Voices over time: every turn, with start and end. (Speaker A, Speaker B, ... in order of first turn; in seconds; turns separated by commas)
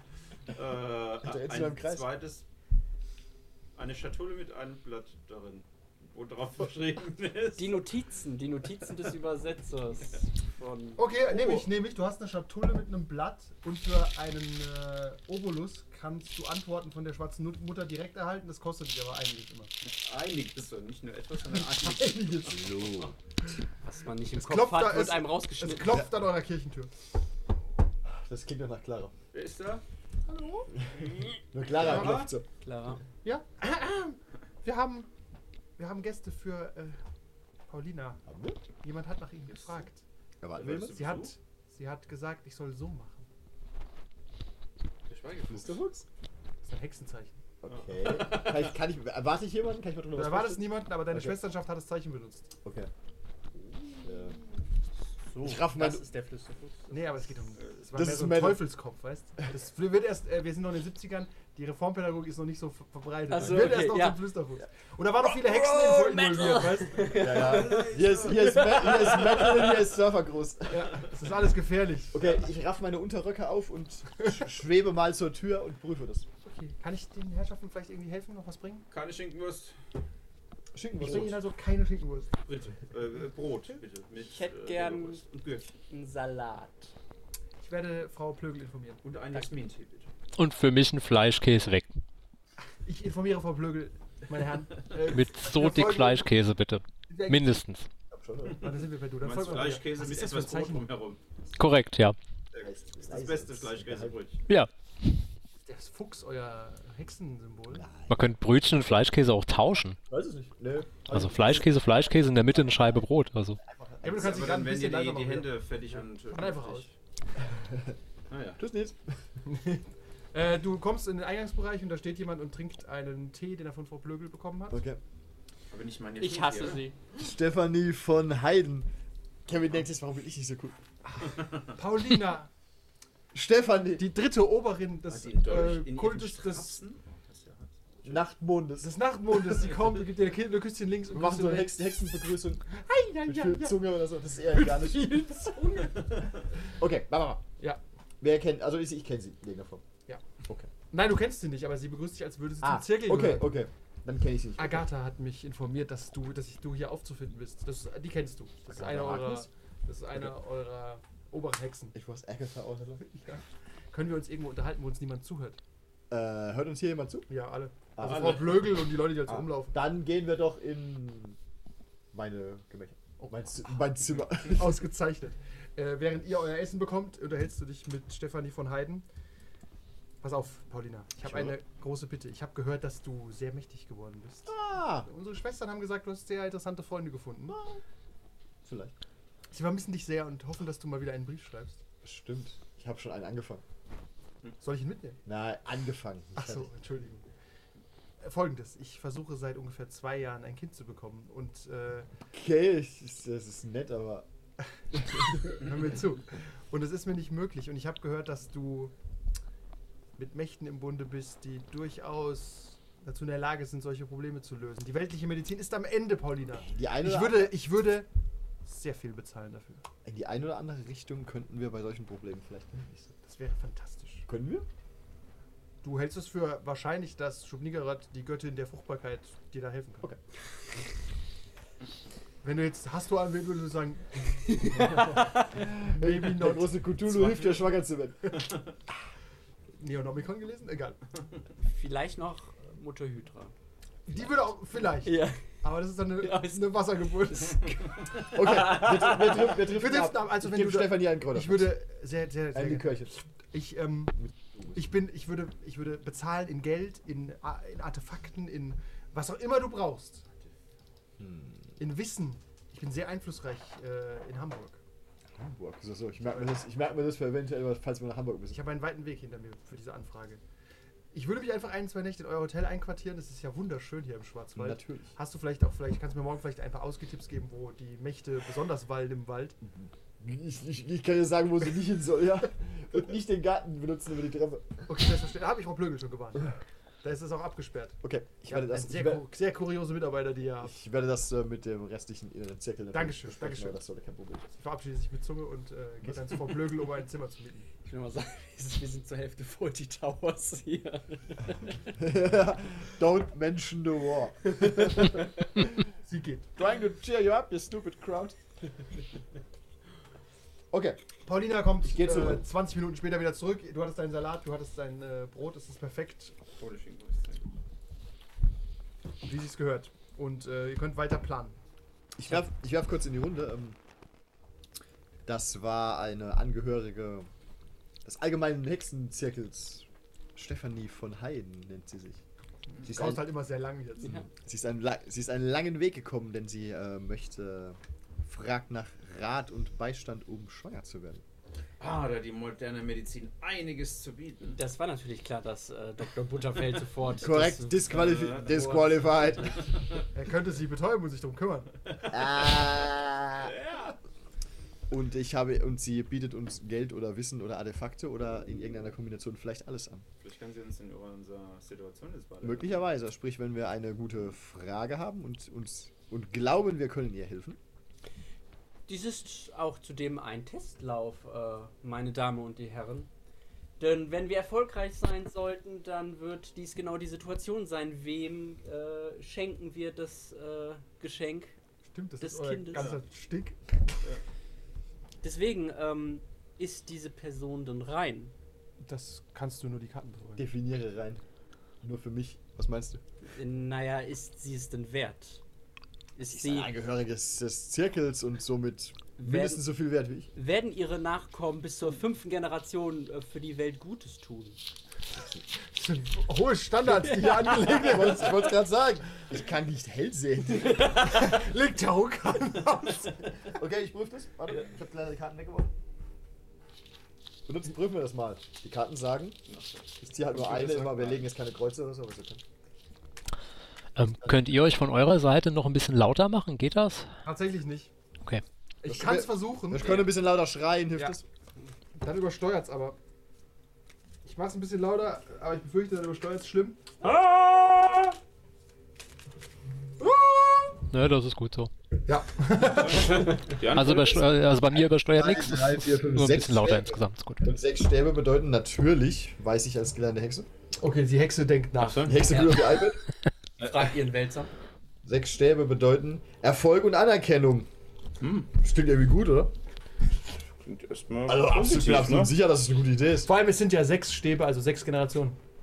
Speaker A: 0.5-2.4, Speaker B: 1.2-2.1, Speaker A: 3.8-7.8, Speaker C: 7.5-11.0, Speaker D: 11.0-19.7, Speaker A: 19.9-23.1, Speaker D: 21.5-22.5, Speaker B: 22.4-23.1, Speaker C: 23.8-26.0, Speaker D: 24.4-26.9, Speaker B: 28.0-29.1, Speaker A: 29.3-29.8, Speaker D: 30.3-30.7, Speaker B: 30.8-32.4, Speaker A: 31.7-32.3, Speaker D: 31.9-32.2, Speaker C: 32.6-33.0, Speaker D: 33.2-35.1, Speaker D: 35.8-37.0, Speaker D: 37.7-38.2, Speaker B: 38.2-38.6, Speaker D: 38.8-40.0, Speaker A: 39.5-39.9, Speaker B: 40.4-41.1, Speaker A: 40.5-41.3, Speaker D: 40.9-43.3, Speaker A: 45.1-45.8, Speaker B: 45.5-46.0, Speaker D: 46.6-47.4, Speaker B: 47.6-51.4, Speaker A: 47.7-48.7, Speaker D: 50.1-52.5, Speaker B: 52.6-52.9, Speaker B: 54.0-54.4, Speaker C: 55.3-57.0, Speaker B: 55.4-56.0, Speaker D: 56.9-67.2, Speaker B: 57.9-58.7, Speaker C: 63.3-64.2, Speaker C: 65.4-69.4, Speaker B: 67.0-71.1, Speaker A: 67.1-69.2, Speaker D: 70.7-72.2, Speaker B: 72.1-76.3, Speaker D: 76.4-78.8, Speaker A: 78.9-79.8, Speaker B: 80.7-81.4, Speaker D: 81.0-82.3, Speaker A: 82.5-85.7, Speaker C: 84.2-85.2, Speaker C: 85.8-86.9, Speaker D: 87.6-89.0, Speaker A: 89.0-90.1, Speaker E: 90.4-91.9, Speaker D: 92.8-96.3, Speaker E: 95.1-97.9, Speaker D: 97.1-97.6, Speaker B: 98.1-98.6, Speaker A: 98.5-101.2, Speaker D: 98.6-100.8, Speaker E: 101.6-102.2, Speaker A: 102.5-104.4, Speaker B: 102.6-104.2, Speaker D: 105.7-107.9, Speaker B: 107.7-108.3, Speaker E: 108.1-110.0, Speaker B: 110.1-113.0, Speaker E: 111.1-113.6, Speaker B: 113.6-114.5, Speaker D: 114.0-115.5, Speaker A: 114.0-116.9, Speaker D: 116.3-116.9, Speaker B: 117.4-118.0, Speaker A: 118.3-118.6, Speaker B: 118.6-119.2, Speaker D: 119.5-124.8, Speaker B: 124.7-125.0, Speaker A: 125.7-126.8, Speaker C: 126.2-127.0, Speaker B: 127.2-128.9, Speaker B: 129.4-130.8, Speaker D: 131.1-132.5, Speaker B: 133.3-134.1, Speaker D: 134.0-136.8, Speaker A: 135.1-138.2, Speaker B: 138.0-138.9, Speaker D: 138.8-141.9, Speaker B: 141.1-142.7, Speaker D: 142.7-143.8, Speaker B: 143.2-145.6, Speaker D: 144.5-146.2, Speaker B: 146.8-147.4, Speaker B: 148.2-149.8, Speaker B: 150.5-150.7, Speaker D: 150.9-153.5, Speaker B: 152.6-154.9, Speaker D: 154.6-161.9, Speaker B: 158.7-159.5, Speaker B: 161.9-163.3, Speaker D: 163.2-165.6, Speaker B: 166.1-167.3, Speaker D: 167.3-169.7, Speaker B: 167.9-171.4, Speaker A: 168.0-168.4, Speaker B: 172.1-174.8, Speaker A: 174.1-174.4, Speaker D: 174.4-179.1, Speaker D: 180.2-187.6, Speaker B: 181.2-181.6, Speaker B: 184.5-185.1, Speaker B: 187.5-187.8, Speaker B: 188.6-188.9, Speaker D: 189.5-191.8, Speaker B: 192.0-193.6, Speaker D: 194.6-195.2, Speaker B: 195.2-196.7, Speaker D: 196.3-197.2, Speaker D: 198.2-202.1, Speaker B: 202.3-204.3, Speaker B: 204.9-205.4, Speaker D: 205.3-208.9, Speaker D: 210.2-218.1, Speaker B: 216.5-217.6, Speaker D: 218.6-219.8, Speaker B: 220.0-223.1, Speaker D: 223.2-224.2, Speaker B: 224.3-224.7, Speaker D: 225.8-230.1, Speaker D: 232.4-237.7, Speaker C: 234.5-235.4, Speaker B: 235.5-238.4, Speaker D: 239.8-241.0, Speaker C: 241.6-243.5, Speaker D: 244.1-247.8, Speaker C: 245.0-245.4, Speaker C: 246.2-246.7, Speaker B: 248.3-251.8, Speaker C: 248.4-249.4, Speaker D: 249.6-254.2, Speaker B: 252.5-253.2, Speaker B: 254.2-254.8, Speaker D: 254.7-260.2, Speaker B: 261.2-261.8, Speaker D: 261.8-264.8, Speaker B: 265.3-268.6, Speaker D: 268.5-270.4, Speaker D: 271.1-279.6, Speaker B: 274.5-275.1, Speaker B: 279.7-284.9, Speaker D: 284.9-290.7, Speaker B: 288.0-289.3, Speaker B: 290.6-294.5, Speaker D: 292.9-293.8, Speaker D: 294.5-297.7, Speaker B: 296.0-296.4, Speaker C: 297.8-301.8, Speaker B: 301.9-305.2, Speaker D: 305.9-306.5, Speaker B: 306.6-308.4, Speaker B: 310.7-311.0, Speaker D: 311.2-316.3, Speaker B: 311.8-312.5, Speaker A: 316.6-317.5, Speaker D: 319.2-321.6, Speaker B: 322.1-323.8, Speaker B: 325.2-327.3, Speaker B: 328.0-332.2, Speaker B: 332.8-333.3, Speaker D: 332.8-334.1, Speaker C: 334.0-334.2, Speaker B: 334.1-341.2, Speaker A: 341.8-344.6, Speaker C: 344.5-349.2, Speaker B: 347.2-349.6, Speaker A: 347.9-348.9, Speaker D: 350.1-351.7, Speaker A: 352.0-352.6, Speaker B: 352.1-353.5, Speaker A: 353.4-353.9, Speaker B: 354.9-360.0, Speaker A: 360.2-362.8, Speaker B: 362.4-367.6, Speaker C: 368.9-373.1, Speaker C: 373.8-381.5, Speaker D: 381.9-383.6, Speaker C: 382.2-382.9, Speaker A: 382.7-383.0, Speaker C: 385.2-388.3, Speaker D: 388.8-390.4, Speaker B: 390.4-391.2, Speaker B: 391.8-393.0, Speaker C: 393.2-395.4, Speaker C: 396.1-396.7, Speaker B: 396.3-400.3, Speaker C: 399.2-399.6, Speaker C: 400.3-404.6, Speaker D: 405.7-408.5, Speaker C: 407.2-408.0, Speaker B: 407.6-411.0, Speaker C: 410.6-411.0, Speaker D: 410.9-413.3, Speaker B: 413.4-415.7, Speaker B: 417.4-419.4, Speaker A: 419.5-421.2, Speaker B: 420.0-422.4, Speaker E: 423.9-427.1, Speaker D: 427.2-427.9, Speaker D: 428.8-430.1, Speaker B: 428.8-431.2, Speaker D: 432.0-433.0, Speaker D: 434.2-437.1, Speaker E: 440.9-441.7, Speaker D: 442.1-443.5, Speaker A: 442.6-444.3, Speaker E: 443.6-447.5, Speaker B: 445.1-450.5, Speaker D: 450.8-452.1, Speaker A: 451.8-452.4, Speaker B: 452.0-453.0, Speaker C: 452.3-452.8, Speaker C: 453.6-454.5, Speaker B: 455.0-457.7, Speaker A: 458.2-458.5, Speaker B: 458.6-459.5, Speaker A: 460.6-462.3, Speaker B: 461.3-463.3, Speaker D: 463.3-465.4